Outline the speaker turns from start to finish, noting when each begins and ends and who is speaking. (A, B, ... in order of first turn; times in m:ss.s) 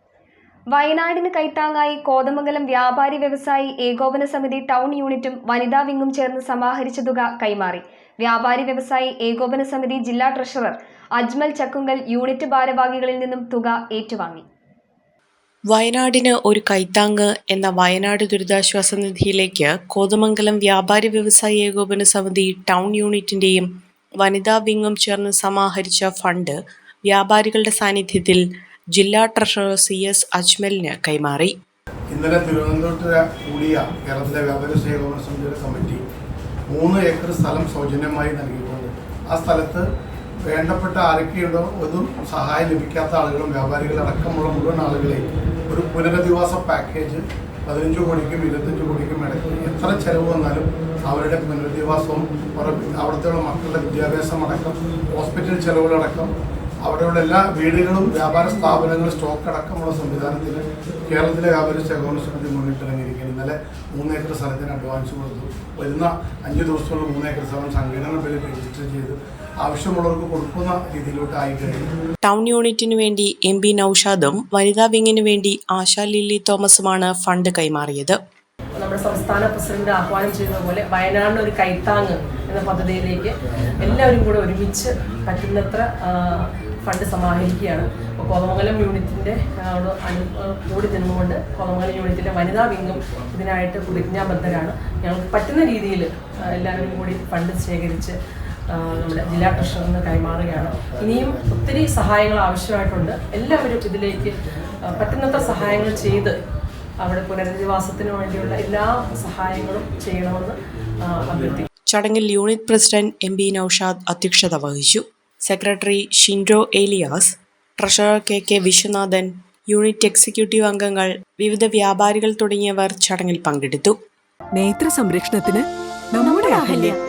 0:00.7-0:14.4 A
0:15.7-0:23.7 B
0:24.2-0:31.5 B
0:32.1-0:36.0 C
0:36.7-0:39.9 C
0:40.5-0:56.3 C
0:56.8-1:11.9 C
1:12.2-1:18.2 B
1:18.8-1:38.2 D
1:38.7-1:46.4 D
1:47.0-1:51.7 D
1:51.9-2:04.0 B
2:04.5-2:07.0 E